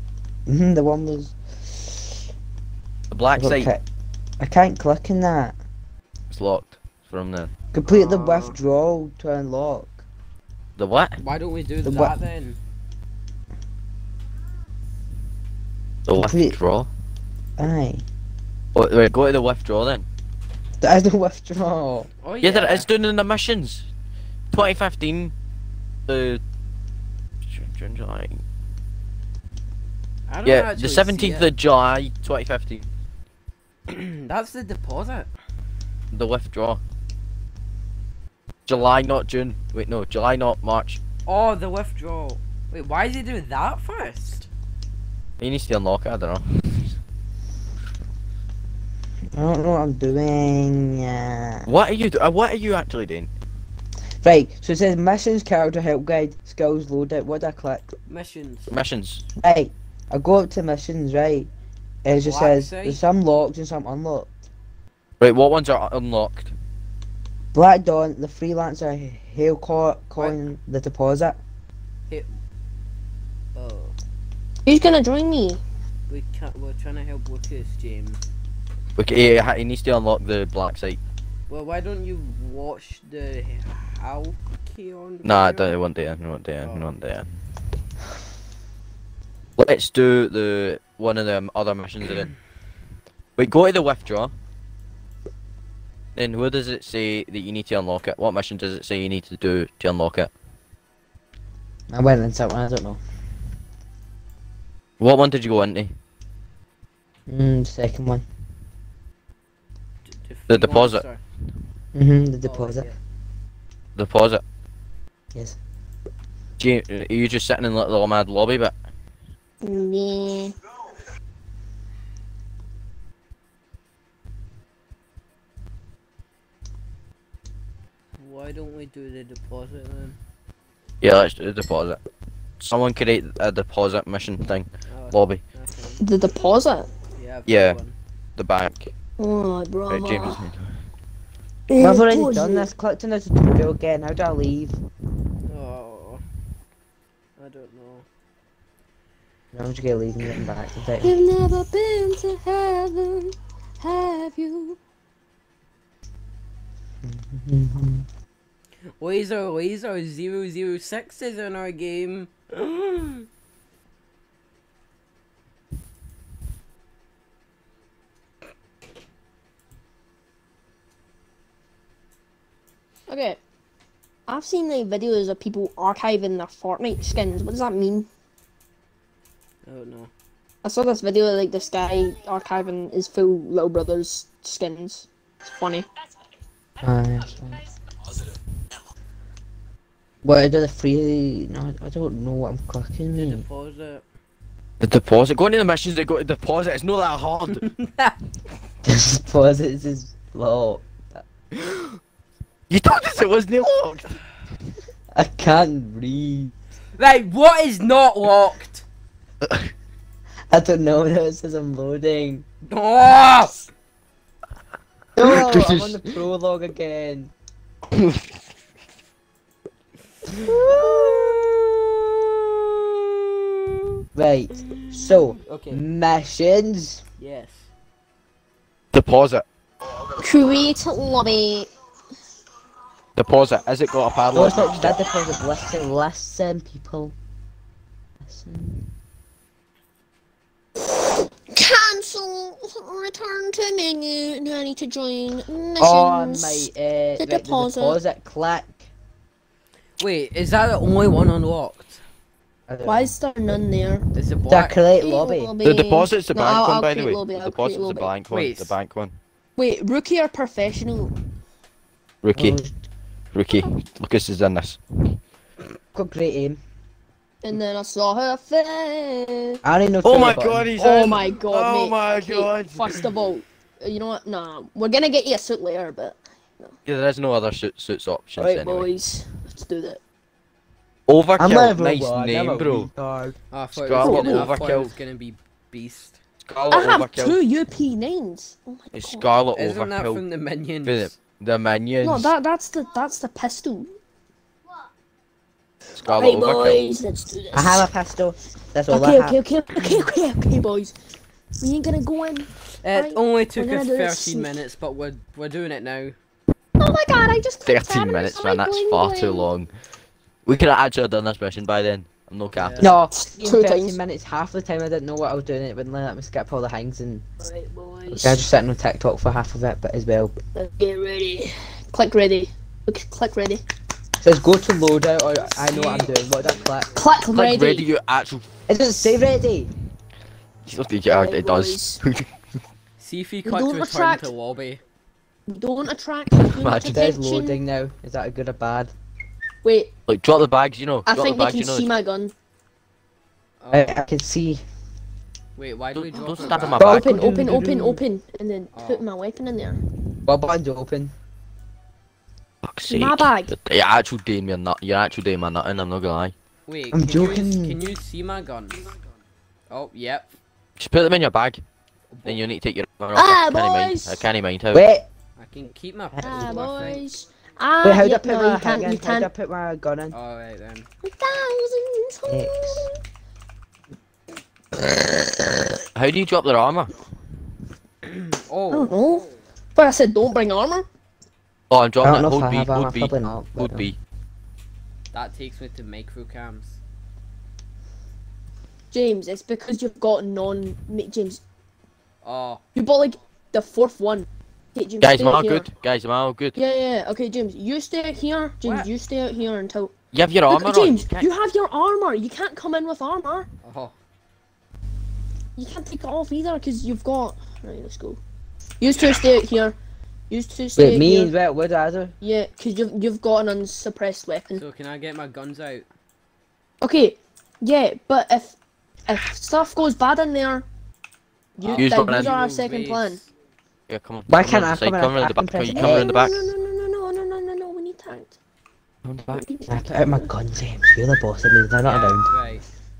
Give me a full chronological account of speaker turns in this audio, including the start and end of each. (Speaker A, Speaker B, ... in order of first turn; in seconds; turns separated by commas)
Speaker A: 0.5-1.9, Speaker B: 3.1-3.7, Speaker A: 3.4-3.8, Speaker A: 4.4-5.6, Speaker B: 6.3-7.5, Speaker A: 7.7-10.0, Speaker C: 7.8-8.6, Speaker B: 10.8-11.2, Speaker C: 11.2-12.6, Speaker A: 11.8-12.2, Speaker B: 16.1-16.9, Speaker A: 16.2-16.6, Speaker A: 17.6-18.0, Speaker B: 18.7-20.1, Speaker A: 20.8-22.1, Speaker C: 22.2-22.9, Speaker B: 22.4-23.9, Speaker B: 24.5-25.3, Speaker B: 26.1-26.4, Speaker B: 27.4-28.4, Speaker C: 30.3-31.5, Speaker B: 30.4-32.9, Speaker C: 33.9-35.3, Speaker B: 36.1-36.8, Speaker B: 38.7-41.0, Speaker C: 41.3-44.5, Speaker B: 45.4-47.0, Speaker A: 49.3-51.7, Speaker B: 51.6-53.3, Speaker A: 54.2-57.9, Speaker C: 58.1-58.7, Speaker B: 58.7-59.2, Speaker A: 59.4-61.5, Speaker A: 62.0-64.3, Speaker C: 62.1-63.0, Speaker B: 65.2-66.5, Speaker A: 67.5-71.4, Speaker C: 73.5-74.0, Speaker D: 74.6-75.6, Speaker C: 76.1-78.2, Speaker B: 79.0-81.0, Speaker C: 81.5-85.7, Speaker B: 85.2-87.3, Speaker C: 86.6-86.9, Speaker B: 89.6-92.3, Speaker B: 93.3-94.3, Speaker B: 96.1-100.3, Speaker A: 101.9-103.0, Speaker B: 105.0-106.0, Speaker A: 107.3-108.2, Speaker C: 110.0-111.2, Speaker B: 110.5-111.0, Speaker A: 111.9-112.9, Speaker C: 112.4-113.0, Speaker B: 114.0-114.4, Speaker B: 116.6-118.7, Speaker D: 119.6-120.5, Speaker C: 128.2-130.2, Speaker B: 131.0-132.0, Speaker B: 132.6-135.4, Speaker C: 134.9-136.0, Speaker D: 136.0-136.9, Speaker C: 137.2-137.9, Speaker B: 137.4-137.8, Speaker B: 138.4-138.9, Speaker D: 139.2-140.4, Speaker B: 139.9-140.7, Speaker D: 141.7-142.7, Speaker A: 141.8-144.8, Speaker C: 145.4-146.2, Speaker C: 147.4-148.0, Speaker A: 149.5-151.1, Speaker D: 151.0-154.8, Speaker A: 157.0-158.1, Speaker C: 159.0-163.3, Speaker D: 173.1-173.4, Speaker D: 174.3-178.1, Speaker C: 179.7-180.1, Speaker D: 180.6-185.8, Speaker A: 186.8-187.6, Speaker A: 190.2-193.4, Speaker C: 193.1-194.0, Speaker B: 194.8-197.7, Speaker C: 197.6-198.2, Speaker A: 198.8-201.2, Speaker B: 202.7-204.2, Speaker A: 205.1-206.5, Speaker C: 207.0-208.8, Speaker B: 209.4-209.7, Speaker A: 210.5-212.4, Speaker C: 212.6-213.7, Speaker A: 215.2-217.3, Speaker B: 215.2-216.0, Speaker B: 217.9-218.2, Speaker A: 220.4-221.3, Speaker D: 220.6-221.2, Speaker A: 224.1-227.0, Speaker C: 224.7-225.8, Speaker C: 227.2-227.7, Speaker B: 228.9-229.4, Speaker D: 230.1-231.7, Speaker B: 233.2-235.0, Speaker A: 234.3-237.1, Speaker A: 238.2-238.8, Speaker D: 241.5-247.9, Speaker A: 245.8-248.9, Speaker C: 250.0-252.0, Speaker A: 252.7-253.5, Speaker D: 252.8-254.1, Speaker C: 254.1-254.8, Speaker A: 254.5-255.6, Speaker D: 255.0-258.1, Speaker B: 255.6-259.1, Speaker C: 258.3-258.7, Speaker D: 259.6-261.1, Speaker B: 262.2-262.6, Speaker A: 262.3-262.8, Speaker B: 263.3-265.2, Speaker A: 265.9-266.6, Speaker D: 267.4-269.6, Speaker A: 269.6-270.7, Speaker B: 270.0-272.9, Speaker D: 270.8-276.7, Speaker B: 276.8-278.9, Speaker D: 278.4-280.0, Speaker B: 281.1-282.9, Speaker A: 281.4-283.4, Speaker C: 283.5-286.2, Speaker B: 283.8-284.9, Speaker D: 284.0-284.6, Speaker B: 286.4-287.4, Speaker D: 286.7-289.3, Speaker B: 288.9-290.2, Speaker C: 289.5-291.1, Speaker B: 290.8-292.3, Speaker D: 292.0-294.0, Speaker B: 295.9-296.9, Speaker D: 296.1-297.9, Speaker A: 297.5-299.4, Speaker D: 298.9-300.9, Speaker D: 301.6-304.5, Speaker C: 302.8-306.1, Speaker D: 306.8-309.5, Speaker B: 307.6-309.7, Speaker B: 310.4-312.9, Speaker C: 312.5-312.9, Speaker A: 312.8-317.2, Speaker D: 313.1-314.0, Speaker D: 317.4-318.4, Speaker A: 318.1-320.4, Speaker D: 320.5-323.6, Speaker A: 324.2-326.9, Speaker C: 325.5-326.1, Speaker D: 326.9-327.9, Speaker B: 327.3-328.5, Speaker A: 328.7-329.7, Speaker B: 330.6-332.3, Speaker D: 331.1-332.0, Speaker C: 333.0-334.8, Speaker D: 333.4-334.3, Speaker D: 335.5-337.6, Speaker B: 336.3-337.1, Speaker A: 336.9-338.9, Speaker D: 339.6-339.9, Speaker B: 340.1-341.9, Speaker D: 341.1-342.3, Speaker C: 343.6-344.0, Speaker A: 343.7-344.6, Speaker C: 345.6-346.9, Speaker B: 345.9-347.3, Speaker D: 346.3-349.8, Speaker A: 346.8-348.0, Speaker C: 348.7-349.0, Speaker A: 350.2-351.1, Speaker B: 352.6-356.3, Speaker D: 352.9-353.5, Speaker C: 356.7-358.9, Speaker A: 356.9-357.8, Speaker C: 359.7-360.3, Speaker B: 360.8-361.6, Speaker C: 362.1-362.4, Speaker B: 362.2-364.9, Speaker D: 363.1-364.2, Speaker A: 364.7-365.1, Speaker C: 365.4-367.0, Speaker A: 366.1-367.0, Speaker D: 366.2-369.3, Speaker A: 367.8-370.1, Speaker C: 370.1-370.9, Speaker D: 371.0-373.0, Speaker A: 372.3-372.9, Speaker B: 375.9-376.9, Speaker C: 378.0-379.0, Speaker D: 378.7-380.9, Speaker B: 381.7-383.9, Speaker A: 382.0-383.9, Speaker C: 385.1-386.8, Speaker D: 388.9-391.4, Speaker C: 392.2-392.6, Speaker D: 392.7-395.7, Speaker B: 395.0-396.6, Speaker D: 396.6-399.9, Speaker C: 398.6-398.9, Speaker B: 400.1-401.3, Speaker D: 400.5-403.5, Speaker C: 403.6-403.9, Speaker D: 405.6-408.2, Speaker D: 408.8-409.8, Speaker D: 410.3-411.3, Speaker A: 410.8-412.1, Speaker D: 412.2-414.6, Speaker C: 414.5-415.9, Speaker D: 416.8-420.6, Speaker D: 421.6-423.2, Speaker C: 421.6-423.3, Speaker B: 421.7-422.4, Speaker B: 423.9-426.5, Speaker A: 424.3-426.1, Speaker D: 425.7-428.4, Speaker B: 429.0-429.4, Speaker D: 429.3-430.3, Speaker A: 429.7-432.3, Speaker C: 431.8-432.6